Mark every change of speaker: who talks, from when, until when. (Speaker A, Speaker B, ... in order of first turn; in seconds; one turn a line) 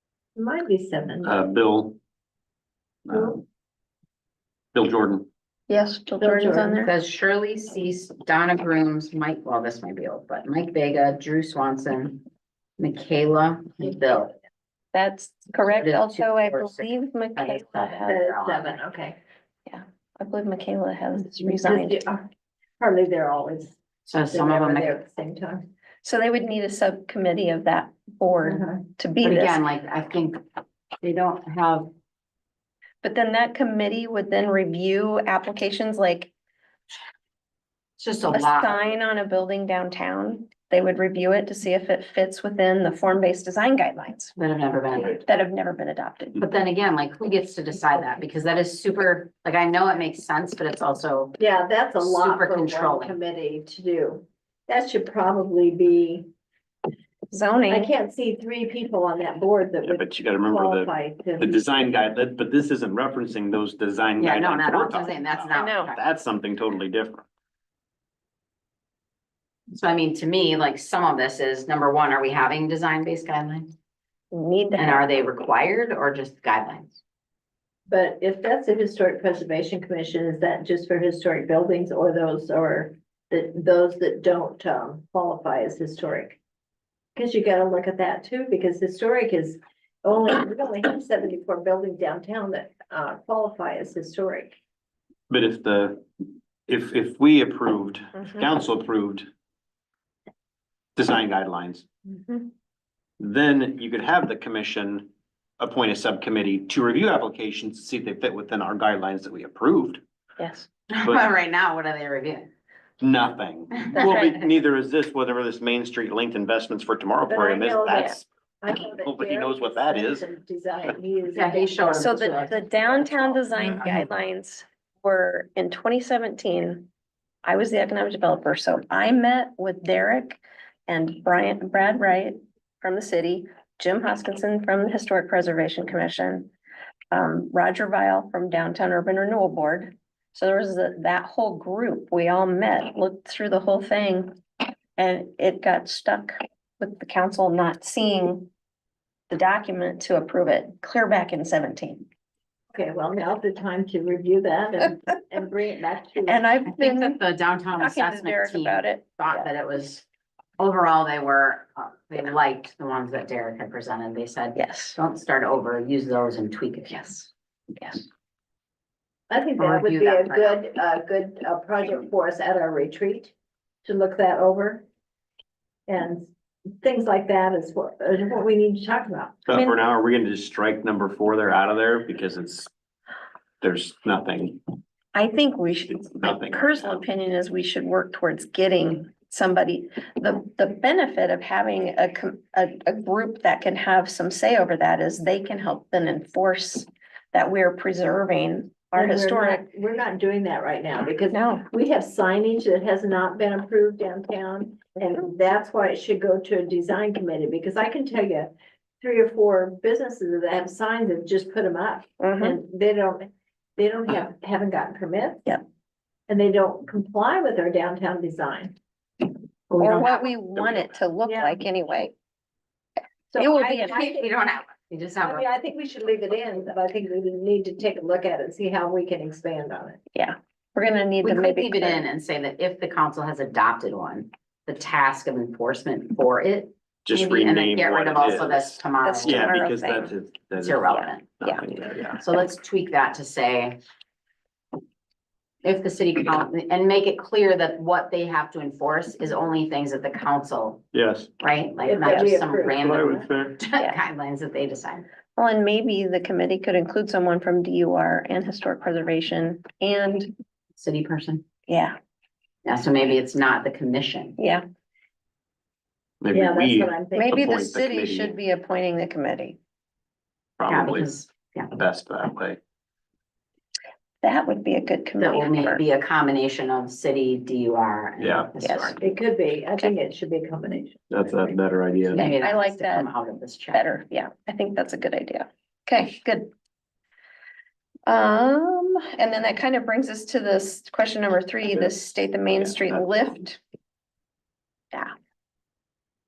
Speaker A: 0.4-1.6
Speaker B: 1.2-2.0
Speaker B: 3.1-3.4
Speaker A: 3.1-3.4
Speaker B: 4.7-5.3
Speaker C: 5.7-6.9
Speaker A: 6.2-6.8
Speaker D: 6.8-12.2
Speaker D: 12.8-14.3
Speaker C: 14.9-18.2
Speaker D: 15.7-18.8
Speaker A: 18.0-19.2
Speaker C: 19.7-22.0
Speaker A: 21.4-22.3
Speaker A: 22.8-25.7
Speaker D: 24.1-24.9
Speaker C: 26.0-29.6
Speaker A: 28.4-28.9
Speaker D: 29.2-30.4
Speaker D: 31.0-31.9
Speaker C: 33.0-36.3
Speaker D: 38.0-38.8
Speaker C: 38.3-44.4
Speaker D: 44.4-45.2
Speaker C: 45.2-46.4
Speaker D: 46.4-51.4
Speaker A: 51.4-56.3
Speaker D: 52.0-53.2
Speaker C: 57.3-57.9
Speaker A: 57.7-61.7
Speaker B: 59.8-67.2
Speaker D: 64.2-66.0
Speaker C: 65.5-65.9
Speaker D: 69.7-73.7
Speaker C: 74.3-75.1
Speaker D: 74.8-77.0
Speaker A: 77.9-86.4
Speaker A: 87.2-94.6
Speaker B: 95.3-96.0
Speaker B: 96.7-99.3
Speaker C: 98.2-98.5
Speaker B: 101.0-101.8
Speaker C: 102.1-102.5
Speaker B: 103.2-105.1
Speaker B: 105.6-110.0
Speaker C: 110.4-110.7
Speaker D: 110.9-112.5
Speaker B: 113.0-120.3
Speaker D: 113.9-114.3
Speaker C: 113.9-114.4
Speaker A: 117.3-123.9
Speaker D: 121.3-123.2
Speaker C: 122.0-126.9
Speaker C: 127.4-136.5
Speaker C: 137.1-144.3
Speaker C: 145.0-148.5
Speaker C: 149.3-152.1
Speaker A: 152.7-156.4
Speaker C: 156.3-157.2
Speaker D: 156.7-160.1
Speaker C: 157.8-159.5
Speaker D: 160.6-167.3
Speaker C: 164.6-165.0
Speaker C: 167.8-168.0
Speaker A: 169.3-174.8
Speaker D: 169.6-170.6
Speaker A: 175.9-176.3
Speaker A: 176.8-179.5
Speaker B: 179.5-182.7
Speaker B: 183.6-184.6
Speaker C: 185.1-199.6
Speaker B: 185.9-187.0
Speaker A: 198.9-215.5
Speaker C: 201.3-201.7
Speaker C: 212.2-212.6
Speaker A: 216.3-218.8
Speaker D: 219.7-220.3
Speaker C: 219.8-222.1
Speaker B: 220.6-220.8
Speaker A: 221.3-221.6
Speaker A: 223.3-224.3
Speaker C: 223.4-224.2
Speaker D: 223.8-225.5
Speaker A: 225.2-230.0
Speaker C: 230.1-232.0
Speaker D: 231.2-239.6
Speaker B: 237.1-240.9
Speaker C: 239.0-240.1
Speaker D: 240.6-241.6
Speaker C: 240.9-241.6
Speaker B: 241.4-242.2
Speaker D: 242.1-243.8
Speaker D: 245.6-250.9
Speaker B: 250.9-251.3
Speaker D: 251.4-255.1
Speaker A: 251.8-253.2
Speaker C: 252.1-252.3
Speaker B: 252.6-253.6
Speaker C: 255.4-260.3
Speaker D: 260.8-261.4
Speaker C: 261.7-262.0
Speaker D: 262.6-264.4
Speaker C: 264.4-264.6
Speaker B: 266.2-268.3
Speaker A: 266.3-267.5
Speaker C: 267.2-269.6
Speaker B: 270.6-271.1
Speaker D: 270.7-271.7
Speaker B: 271.7-272.6
Speaker C: 274.2-275.8
Speaker D: 275.2-279.1
Speaker B: 278.2-278.5
Speaker C: 278.6-279.0
Speaker A: 279.0-281.3
Speaker B: 281.1-282.3
Speaker D: 282.1-283.9
Speaker C: 282.2-283.1
Speaker C: 283.7-286.5
Speaker C: 288.1-293.6
Speaker B: 292.6-293.2